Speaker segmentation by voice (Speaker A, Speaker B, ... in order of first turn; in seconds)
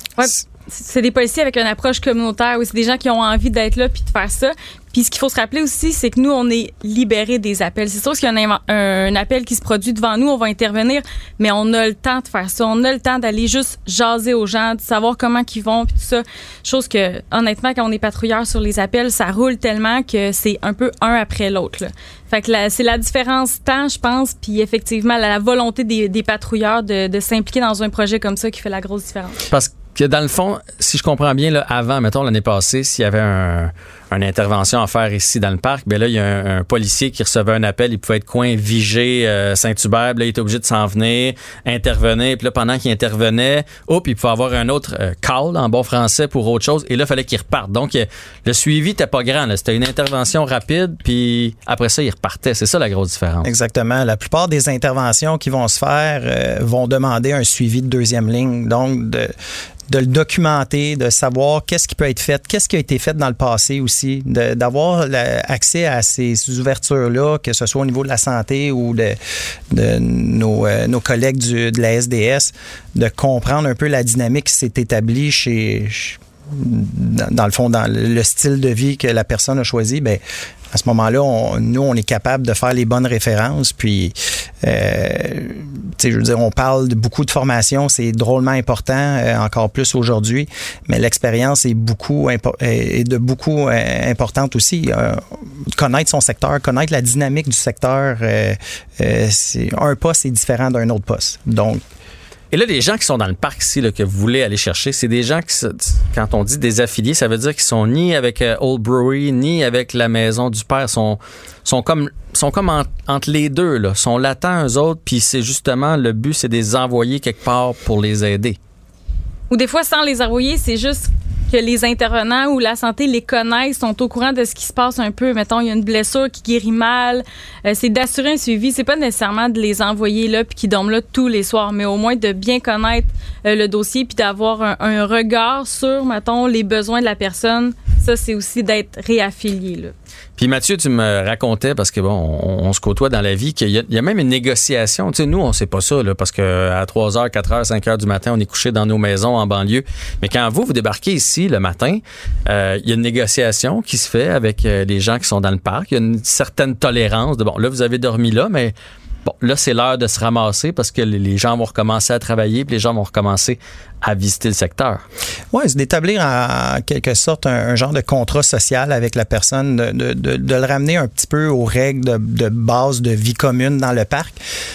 Speaker A: 0.2-29.4, 119.5-139.9
Speaker B: 29.5-53.5, 102.5-118.6, 140.4-158.7, 159.2-165.0
Speaker C: 53.4-59.3, 59.9-69.2, 69.7-101.8, 165.5-174.4